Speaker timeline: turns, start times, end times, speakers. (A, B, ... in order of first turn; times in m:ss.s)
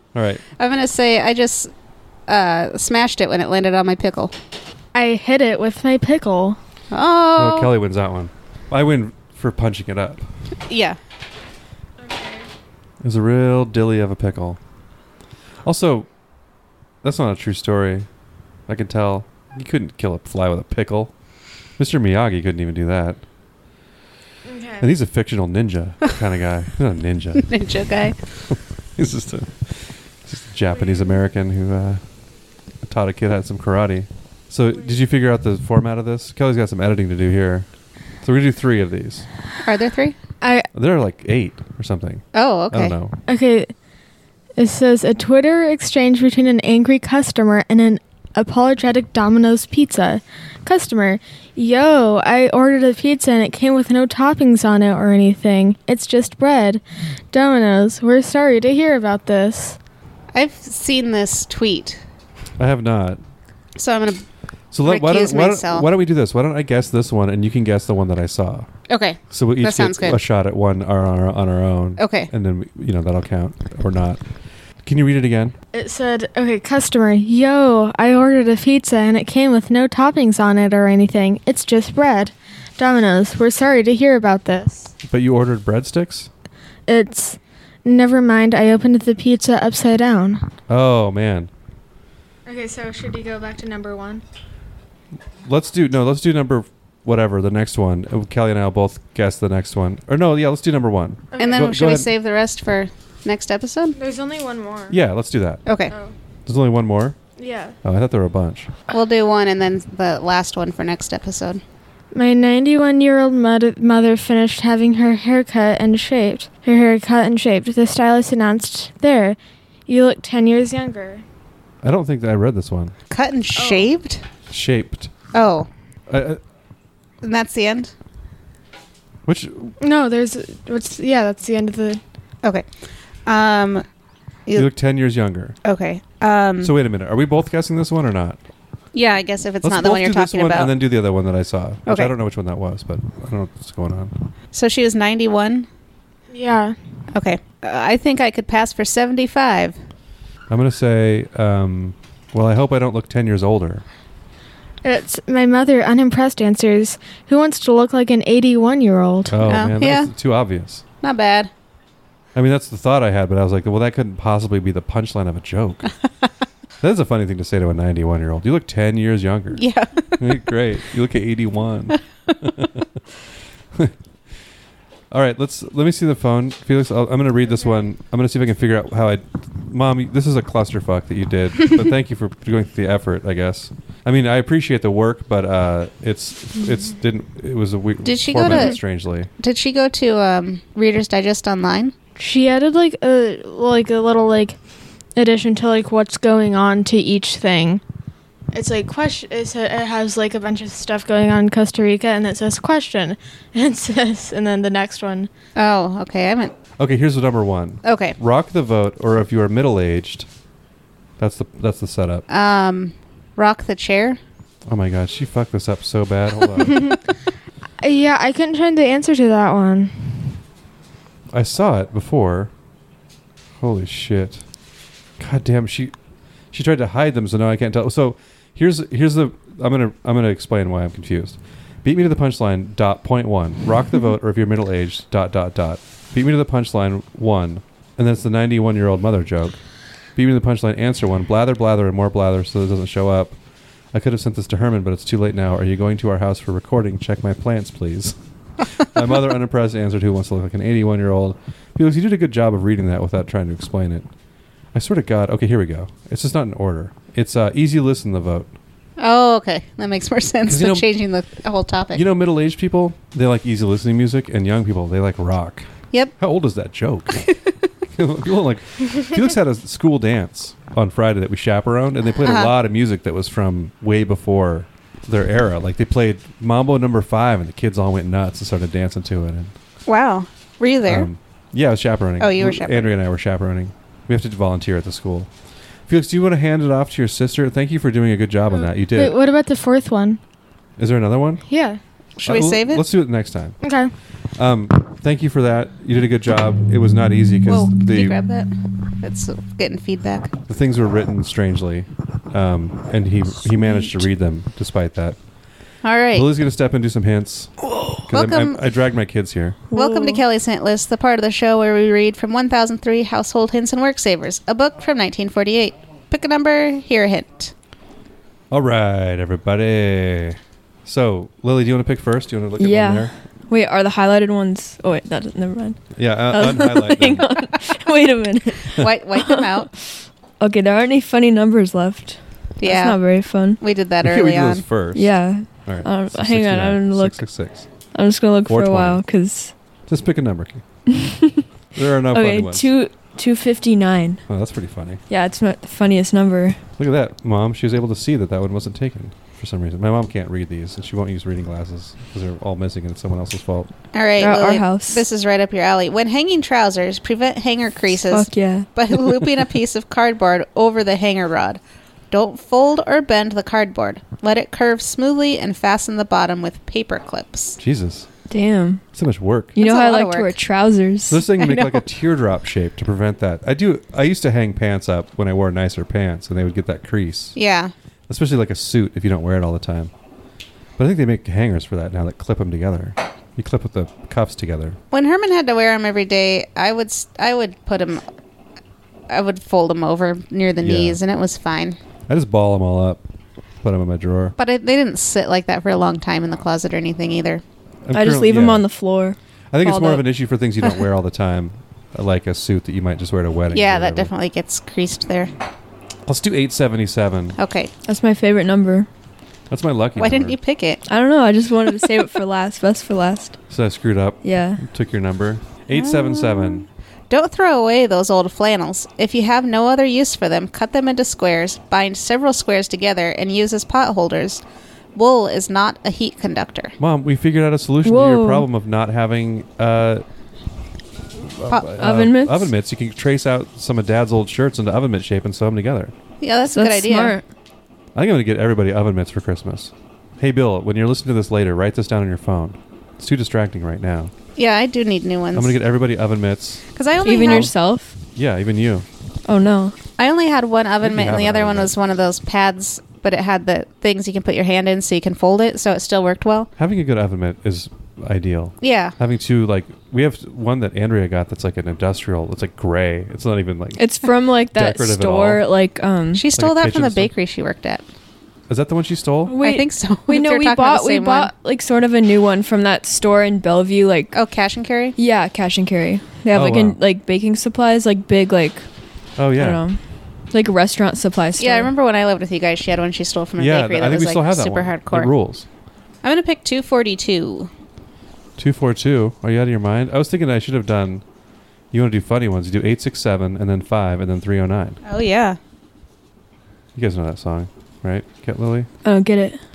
0:00.2-0:00.4 A
0:00.6-0:01.7 B
0:02.3-0:04.3 B
0:04.9-0:06.6 C
0:06.9-0:07.7 B
0:07.4-0:10.2 A
0:10.7-0:11.0 B
0:12.0-0:12.5 C
0:13.0-0:14.6 A
0:15.6-0:16.1 A
0:17.0-0:18.1 A
0:18.7-0:21.1 A
0:21.8-0:23.2 A
0:24.4-0:24.9 C
0:24.8-0:27.5 A
0:27.4-0:28.2 B
0:28.5-0:32.0 A
0:32.9-0:37.7 A
0:38.2-0:39.2 A
0:39.6-0:40.2 B
0:40.4-0:40.7 C
0:40.7-0:43.2 A
0:42.3-0:43.0 B
0:43.3-0:43.7 C
0:44.6-0:59.8 C
1:00.3-1:02.0 B
1:02.6-1:03.2 A
1:03.8-1:04.2 B
1:04.7-1:08.7 A
1:04.8-1:05.9 B
1:08.9-1:10.2 B
1:09.3-1:14.2 A
1:12.0-1:12.3 B
1:14.8-1:15.6 A
1:15.7-1:24.9 C
1:25.1-1:26.3 A
1:26.9-1:30.4 C
1:30.7-1:31.5 A
1:32.5-1:34.2 C
1:35.4-1:42.1 A
1:41.3-1:41.8 C
1:41.4-1:44.0 B
1:44.0-1:45.0 C
1:44.9-1:45.6 A
1:45.7-1:45.9 B
1:46.5-1:47.2 A
1:47.4-1:47.8 C
1:47.8-1:48.7 A
1:48.9-1:51.6 B
1:52.1-2:01.2 C
2:01.8-2:03.0 A
2:03.1-2:04.2 B
2:03.6-2:03.9 C
2:04.5-2:05.1 A
2:05.3-2:05.7 B
2:06.1-2:06.4 A
2:07.2-2:07.9 B
2:09.3-2:09.8 A
2:09.8-2:12.0 C
2:13.3-2:13.9 B
2:14.5-2:14.7 B
2:14.6-2:15.6 A
2:15.6-2:16.8 B
2:16.6-2:18.4 A
2:18.9-2:20.7 B
2:19.6-2:24.1 A
2:21.9-2:22.1 B
2:24.5-2:25.7 B
2:26.3-2:26.8 C
2:27.1-2:29.8 B
2:30.5-2:33.8 A
2:34.8-2:39.4 C
2:39.3-2:40.8 A
2:39.4-2:40.1 B
2:41.0-2:41.5 B
2:42.4-2:45.9 A
2:46.8-2:49.6 A
2:49.5-2:50.4 B
2:50.2-2:52.9 A
2:55.1-3:09.3 A
3:08.0-3:08.8 B
3:09.4-3:12.0 B
3:12.2-3:14.6 C
3:15.2-3:17.8 C
3:18.5-3:25.3 C
3:25.6-3:26.6 B
3:26.8-3:30.3 A
3:27.8-3:28.2 B
3:31.2-3:32.2 A
3:32.3-3:34.2 B
3:34.7-3:37.0 A
3:37.8-3:40.4 C
3:41.3-3:42.5 A
3:43.6-3:44.4 A
3:45.2-3:45.9 A
3:46.5-3:59.6 A
4:00.2-4:03.4 A
4:03.9-4:14.1 A
4:14.7-4:18.5 A
4:19.0-4:22.0 B
4:20.5-4:20.9 A
4:21.9-4:27.2 A
4:27.9-4:39.6 A
4:32.2-4:32.5 B
4:39.9-4:41.1 B
4:40.9-4:45.3 A
4:42.2-4:42.9 B
4:45.9-4:49.2 A
4:48.9-4:50.2 C
4:50.8-4:51.4 A
4:51.5-4:51.8 C
4:52.2-4:52.9 B
4:52.2-4:53.6 A
4:53.6-4:53.9 C
4:54.4-4:58.2 A
4:57.5-5:00.3 B
5:00.5-5:05.2 A
5:05.8-5:06.3 B
5:06.1-5:07.5 A
5:08.1-5:09.6 A
5:08.1-5:08.6 B
5:09.7-5:10.2 D
5:09.7-5:17.5 B
5:18.5-5:23.1 A
5:22.6-5:29.5 D
5:26.0-5:27.5 A
5:28.7-5:29.7 B
5:30.4-5:33.6 D
5:32.6-5:33.0 B
5:33.5-5:34.6 B
5:34.0-5:37.7 A
5:34.9-5:37.3 D
5:37.9-5:39.5 D
5:38.4-5:39.0 A
5:39.9-5:40.6 A
5:40.9-5:41.4 D
5:41.7-5:42.7 A
5:42.1-5:44.2 D
5:44.3-5:45.0 A
5:45.1-5:46.6 D
5:46.8-5:53.7 A
5:53.9-6:01.6 B
5:54.2-5:55.0 D
5:58.0-5:58.7 D
6:02.1-6:07.6 B
6:07.6-6:08.1 A
6:08.3-6:08.8 D
6:08.9-6:09.6 A
6:09.6-6:11.2 D
6:09.6-6:10.4 B
6:11.1-6:17.4 A
6:11.4-6:11.9 B
6:17.4-6:17.7 B
6:18.1-6:19.9 A
6:20.8-6:24.8 A
6:24.9-6:28.0 B
6:29.1-6:31.8 B
6:30.6-6:31.0 A
6:32.1-6:33.0 A
6:33.6-6:34.4 A
6:34.4-6:37.4 B
6:37.8-6:38.7 A
6:37.9-6:40.1 D
6:39.5-6:44.1 A
6:43.5-6:45.3 B
6:46.1-6:47.4 A
6:47.4-6:47.7 B
6:47.9-6:48.9 D
6:49.5-6:50.4 A
6:50.0-6:50.8 B
6:50.9-6:53.4 D
6:53.5-6:56.7 A
6:54.2-6:54.6 D
6:55.7-7:04.4 B
7:05.0-7:06.8 B
7:06.8-7:10.0 A
7:07.8-7:08.5 D
7:11.1-7:15.9 A
7:11.8-7:12.5 D
7:16.2-7:17.2 B
7:16.5-7:17.2 D
7:18.0-7:24.1 A
7:24.4-7:25.6 B
7:25.4-7:27.5 A
7:26.7-7:27.5 B
7:27.0-7:28.0 D
7:28.2-7:28.9 A
7:29.2-7:29.8 D
7:30.0-7:36.5 B
7:30.8-7:31.7 A
7:36.6-7:45.5 A
7:38.6-7:39.0 B
7:43.8-7:46.3 D
7:46.1-7:47.8 B
7:46.4-7:47.1 A
7:48.5-7:49.4 A
7:49.3-7:54.2 D
7:49.4-7:51.3 B
7:54.1-7:55.0 B
7:55.0-7:58.6 D
7:56.3-7:56.8 A
7:59.2-7:59.6 A
7:59.3-7:59.8 D
8:00.3-8:01.7 D
8:01.4-8:05.1 B
8:03.4-8:05.5 A
8:06.0-8:07.5 B
8:08.4-8:11.0 A
8:11.7-8:14.8 A
8:14.8-8:15.4 B
8:16.8-8:18.7 A
8:18.8-8:19.4 D